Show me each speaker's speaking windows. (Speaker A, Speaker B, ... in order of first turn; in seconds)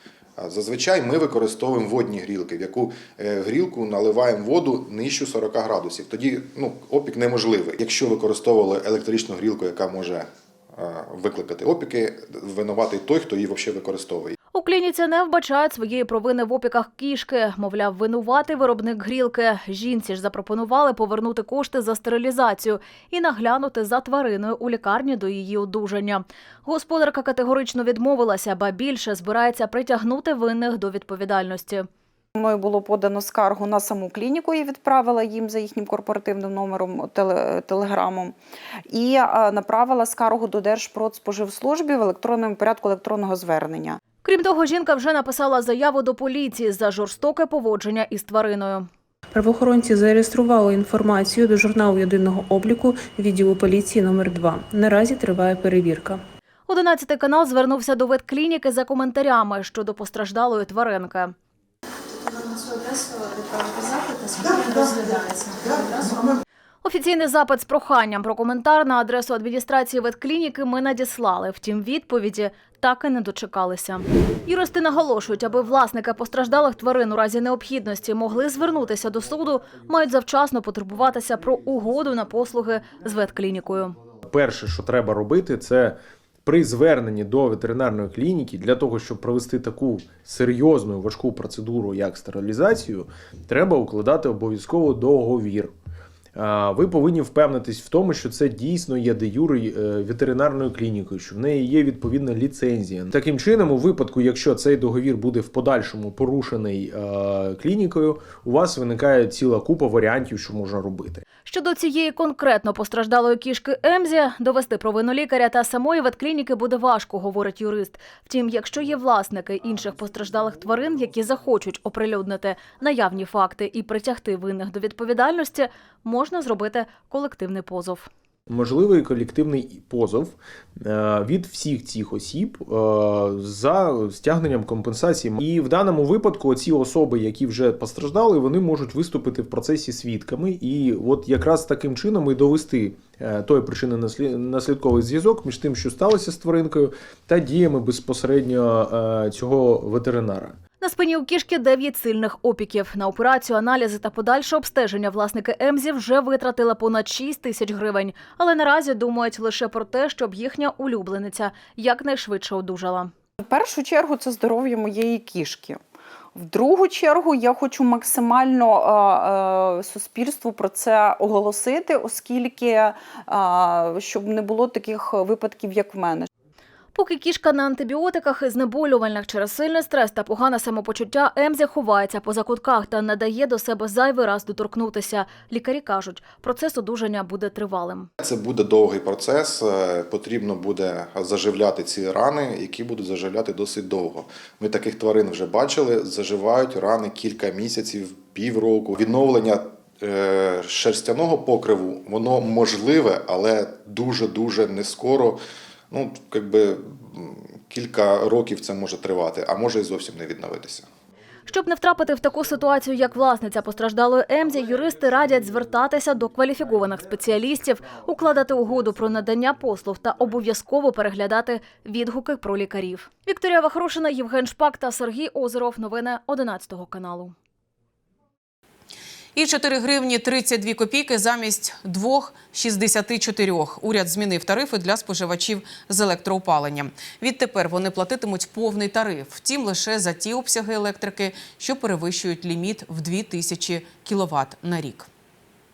Speaker A: 0.4-14.4, 188.2-205.4, 205.9-210.9
Speaker B: 14.5-31.9, 44.2-48.9, 56.7-61.3, 66.8-84.0, 111.5-128.1, 150.8-163.1, 176.9-188.1, 211.5-227.3
Speaker C: 32.4-38.4, 38.9-44.0, 163.4-165.8, 166.3-176.3
Speaker D: 49.4-56.2
Speaker E: 84.2-95.7, 96.4-111.2, 128.5-150.6
Speaker F: 229.3-245.1